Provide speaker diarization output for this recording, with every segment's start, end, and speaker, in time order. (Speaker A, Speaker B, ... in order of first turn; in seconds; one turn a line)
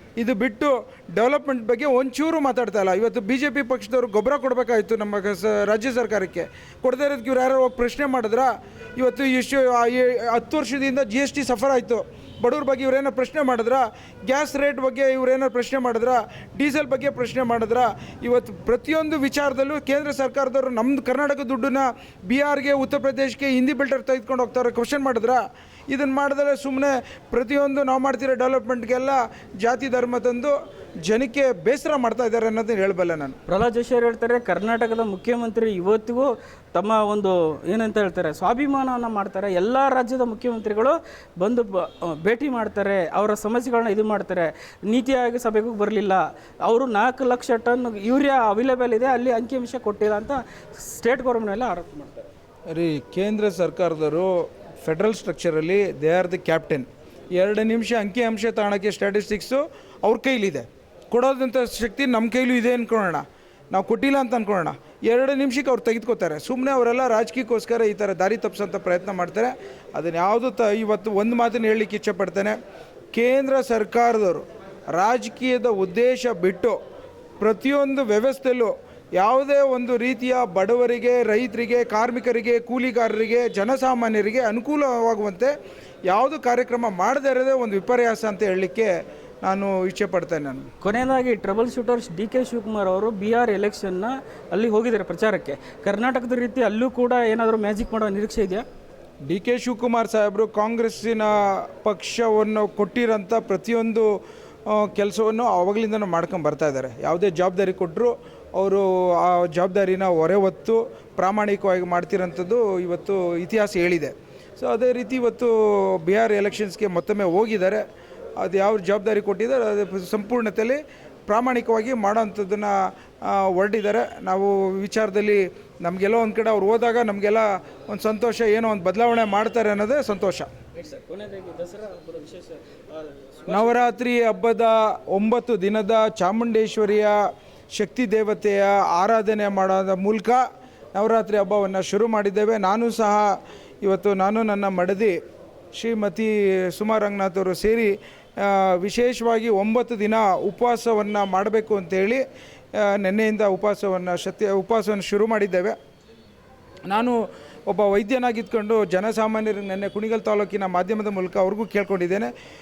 Speaker A: 0.2-30.5
Speaker A: 31.1-33.4
Speaker B: 33.5-52.3
Speaker A: 52.7-72.6
Speaker A: 73.1-76.8
Speaker A: 77.4-85.5
Speaker A: 86.1-90.7
Speaker B: 90.8-98.6
Speaker A: 99.3-104.1
Speaker A: 104.7-117.8
Speaker A: 118.4-130.5
Speaker B: 130.8-134.0
Speaker A: 133.5-137.2
Speaker A: 137.7-140.4
Speaker A: 140.9-145.2
Speaker A: 145.8-152.2
Speaker A: 152.8-155.8
Speaker A: 156.9-162.3